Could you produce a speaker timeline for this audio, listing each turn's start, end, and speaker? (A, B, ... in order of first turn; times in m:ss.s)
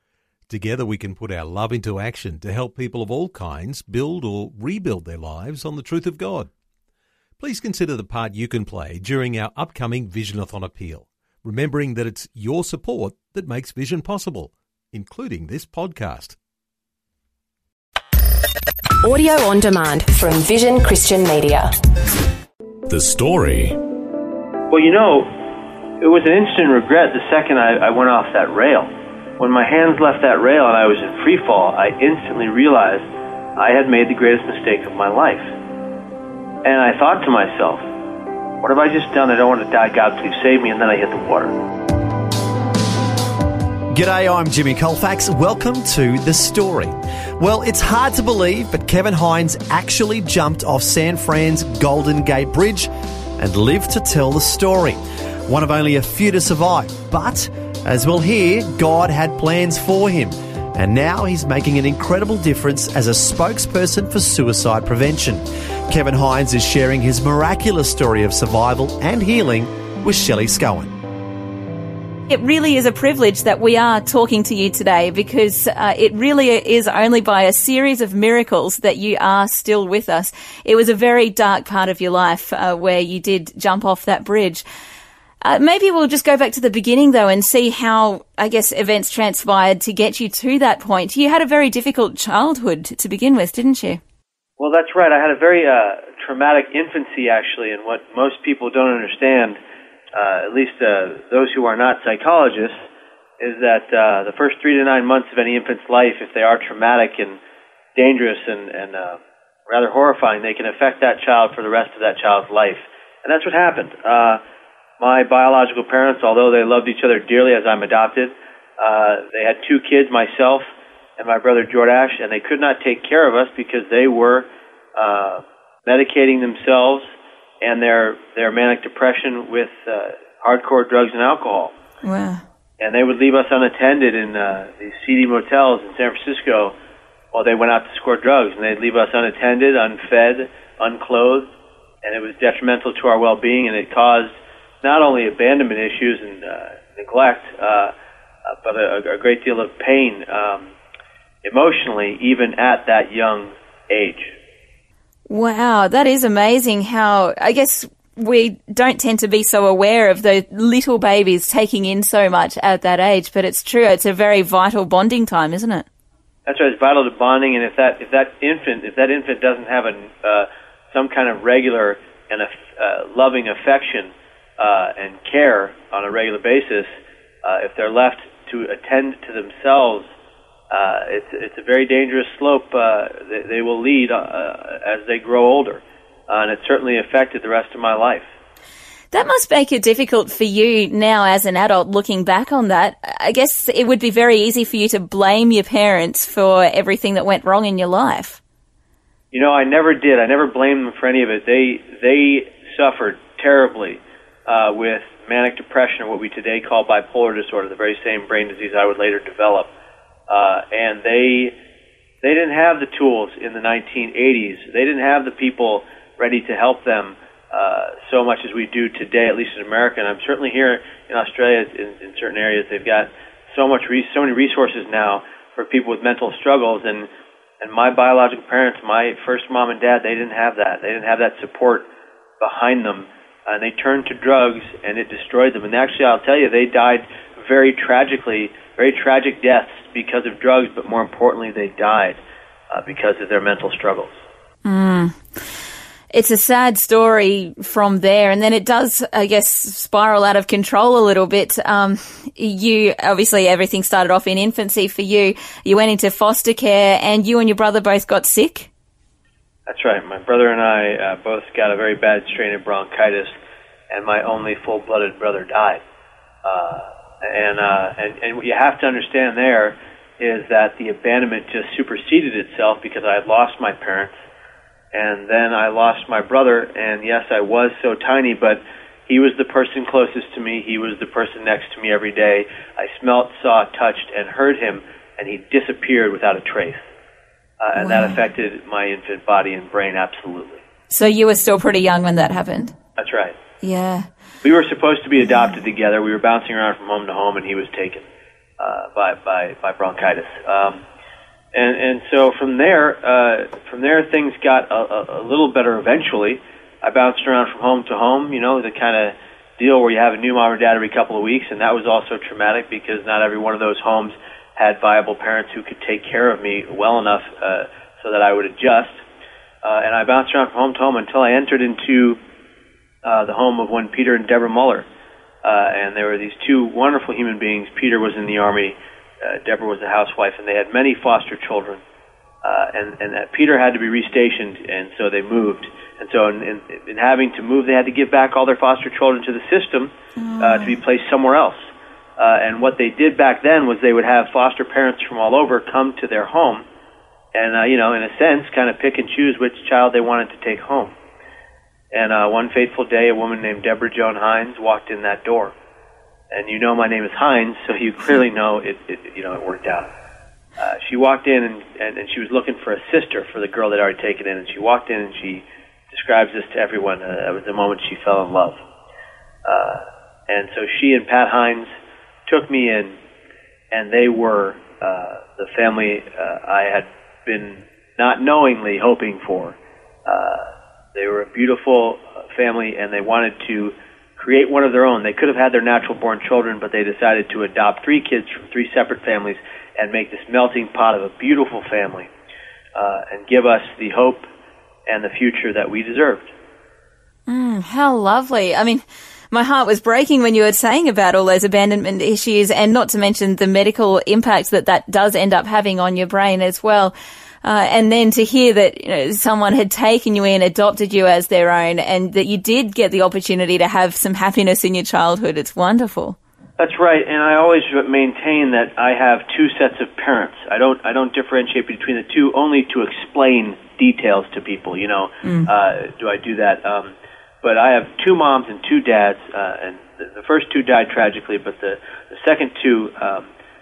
0:00.5-0:06.5 A
0:07.4-0:16.4 A
0:19.0-0:21.7 B
0:22.9-0:23.8 A
0:24.7-0:25.3 C
0:26.0-0:33.0 C
0:33.6-0:35.5 C
0:36.6-0:37.8 C
0:38.6-0:41.5 C
0:43.9-1:11.0 D
1:12.3-1:24.6 E
1:25.4-1:34.0 E
1:34.6-1:39.6 C
1:40.1-1:42.7 C
1:43.4-1:47.4 C
1:48.0-1:54.4 C
1:55.0-2:00.6 C
2:01.2-2:11.7 C
2:12.0-2:12.4 E
2:12.8-2:16.7 C
2:17.3-2:21.5 C
2:22.0-2:24.3 C
2:24.8-2:27.9 C
2:28.5-2:30.7 C
2:31.4-2:34.3 C
2:35.3-2:45.8 E
2:46.4-2:56.9 C
2:57.4-3:00.1 C
3:00.7-3:08.3 C
3:09.1-3:18.4 E
3:19.3-3:29.7 C
3:30.3-3:31.5 C
3:32.2-3:47.1 C
3:47.6-3:51.8 C
3:52.4-4:04.2 C
4:04.6-4:05.2 E
4:06.1-4:18.7 E
4:19.7-4:23.3 C
4:23.9-4:25.8 C
4:26.4-4:34.1 C
4:34.9-4:46.8 C
4:47.6-4:50.6 C
4:47.8-4:48.2 E
4:50.9-4:52.7 E
4:53.0-4:53.4 C
4:53.6-4:54.1 E
4:54.4-4:58.0 C
4:58.6-5:00.8 C
5:01.5-5:19.0 C
5:19.6-5:22.2 C
5:23.0-5:24.8 C
5:25.4-5:31.8 C
5:32.4-5:46.6 C
5:40.2-5:40.7 E
5:47.3-5:50.9 C
5:51.9-5:55.5 C
5:56.3-5:59.9 C
6:00.6-6:08.6 C
6:09.4-6:11.7 C
6:12.3-6:12.9 C
6:13.7-6:32.1 C
6:32.8-6:34.2 C
6:34.9-6:36.3 C
6:37.3-6:56.2 E
6:56.6-7:13.3 C
7:05.2-7:05.5 E